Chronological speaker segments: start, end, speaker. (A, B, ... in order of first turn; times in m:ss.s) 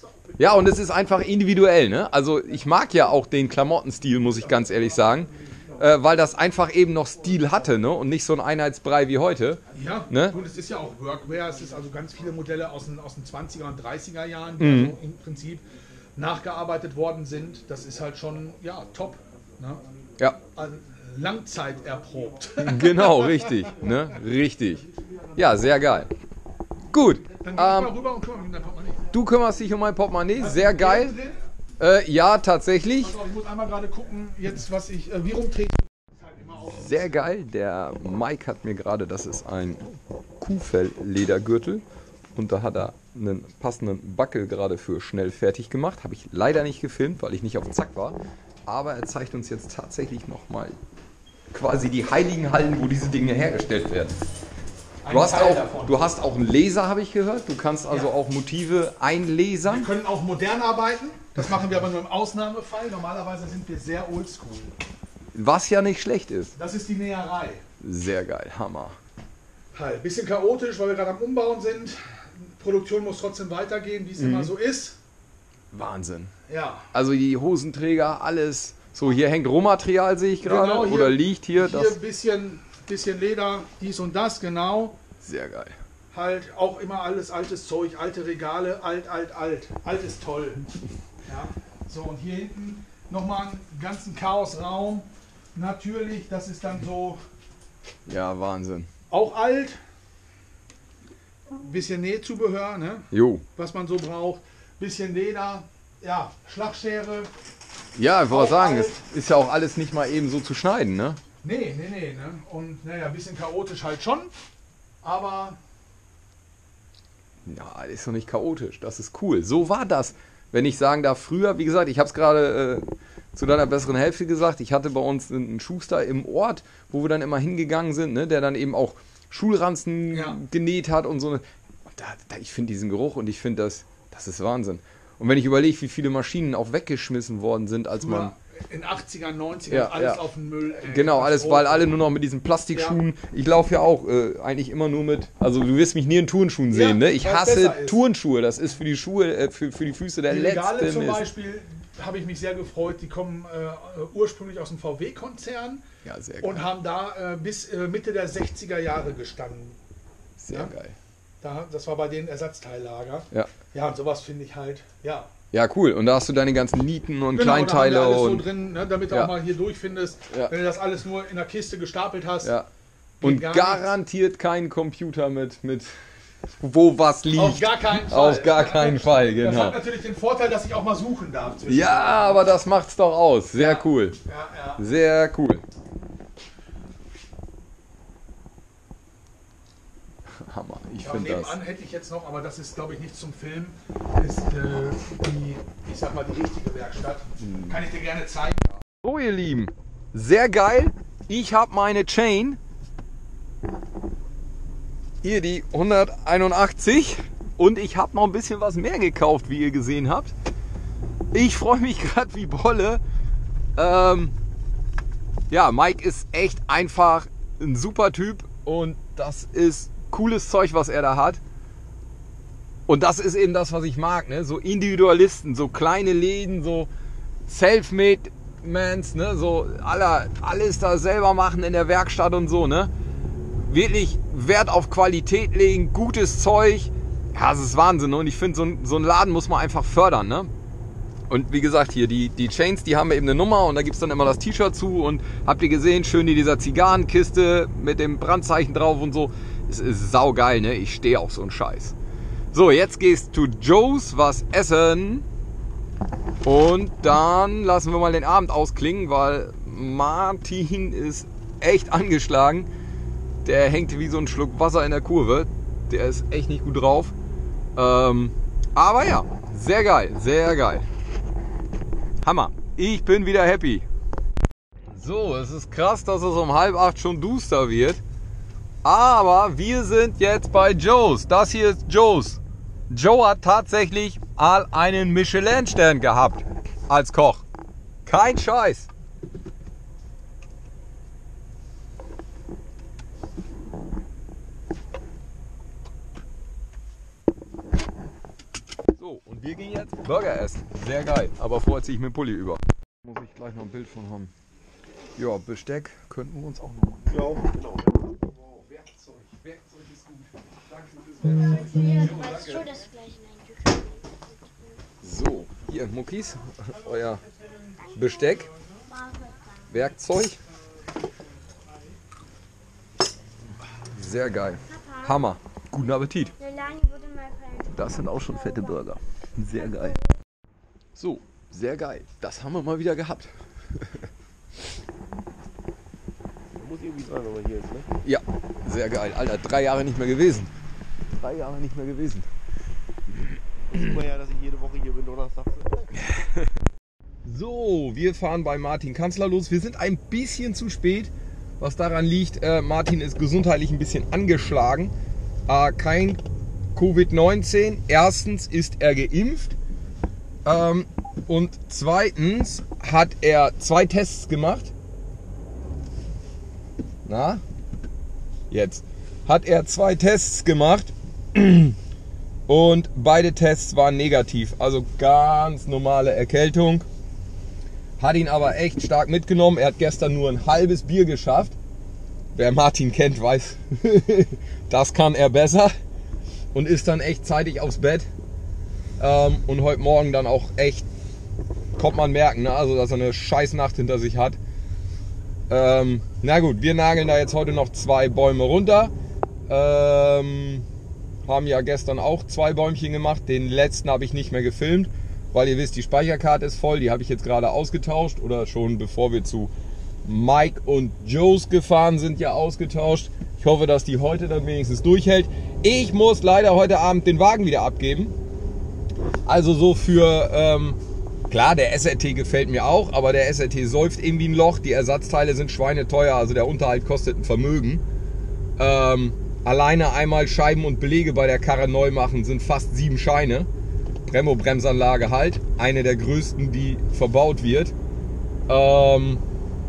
0:00.4-0:10.4 A
0:09.7-0:19.8 B
0:14.6-0:15.0 A
0:20.5-0:23.9 B
0:22.6-0:26.1 A
0:26.9-0:28.0 A
0:27.4-0:29.0 B
0:29.1-0:31.2 A
0:30.4-0:31.4 B
0:31.8-0:33.2 A
0:33.0-0:37.2 B
0:36.6-0:39.9 A
0:40.4-0:41.8 A
0:42.4-0:50.8 A
0:51.5-0:54.2 A
0:55.0-0:56.2 B
0:55.1-0:59.9 A
0:57.9-0:58.1 B
0:59.6-1:04.7 B
1:05.4-1:06.6 A
1:06.6-1:07.6 B
1:07.8-1:09.0 A
1:09.7-1:15.0 B
1:14.2-1:14.5 A
1:15.7-1:16.3 A
1:16.5-1:16.9 B
1:16.9-1:22.0 A
1:20.4-1:25.0 B
1:25.2-1:25.8 A
1:26.1-1:30.7 B
1:31.3-1:37.2 B
1:38.1-1:38.9 A
1:39.1-1:39.8 B
1:41.6-1:47.3 B
1:43.1-1:43.4 A
1:48.0-1:51.2 A
1:48.3-1:49.0 B
1:51.4-1:54.3 B
1:55.0-1:55.6 B
1:57.5-2:18.3 A
2:10.1-2:10.4 B
2:18.0-2:21.9 B
2:19.7-2:20.2 A
2:20.8-2:31.3 A
2:22.7-2:23.0 B
2:26.7-2:28.0 B
2:30.3-2:35.8 B
2:36.0-2:36.6 A
2:36.4-2:39.8 B
2:40.4-2:41.0 A
2:41.4-2:45.3 B
2:45.5-2:48.5 A
2:47.3-2:52.5 B
2:49.1-2:49.4 A
2:52.4-2:52.7 A
2:53.2-2:54.0 B
2:53.2-2:55.9 A
2:56.6-2:59.8 A
2:57.4-3:02.4 B
3:01.7-3:04.2 A
3:03.5-3:04.8 B
3:04.8-3:05.6 A
3:10.4-3:11.6 A
3:11.0-3:18.7 B
3:17.4-3:17.8 A
3:18.9-3:22.6 A
3:25.2-3:30.3 A
3:31.3-3:33.0 A
3:33.8-3:34.4 A
3:35.5-3:41.4 A
3:42.9-3:46.9 A
3:47.5-3:52.9 A
3:53.7-4:00.5 A
4:01.3-4:12.0 A
4:12.5-4:15.2 A
4:16.4-4:22.7 A
4:23.4-4:27.1 A
4:27.8-4:30.9 A
4:32.2-4:33.9 A
4:34.9-4:38.0 A
4:38.8-4:47.4 A
4:48.1-4:48.9 A
4:59.0-5:04.3 A
5:05.2-5:07.2 A
5:07.1-5:08.6 C
5:11.3-5:12.7 A
5:11.5-5:14.7 D
5:15.0-5:17.2 A
5:17.9-5:18.5 A
5:18.9-5:19.4 D
5:19.7-5:20.4 A
5:23.9-5:26.3 A
5:24.7-5:25.2 D
5:26.4-5:28.8 D
5:27.7-5:30.0 A
5:29.5-5:30.0 D
5:31.0-5:34.0 A
5:36.6-5:37.9 C
5:38.0-5:40.5 A
5:41.2-5:42.3 A
5:43.7-5:45.9 C
5:46.0-5:46.4 A
5:47.2-5:54.9 A
5:55.5-5:56.2 A
5:56.8-5:59.6 A
6:00.4-6:04.7 A
6:07.1-6:07.4 A
6:08.5-6:11.8 A
6:12.5-6:16.9 A
6:18.0-6:21.6 A
6:22.4-6:25.7 A
6:26.5-6:28.1 A
6:29.0-6:30.9 A
6:31.8-6:34.4 A
6:35.5-6:38.9 A
6:39.5-6:40.7 A
6:41.3-6:49.5 A
6:50.0-6:58.1 A
6:59.3-7:07.8 A
7:08.6-7:13.5 A
7:14.1-7:17.7 A
7:18.5-7:19.2 A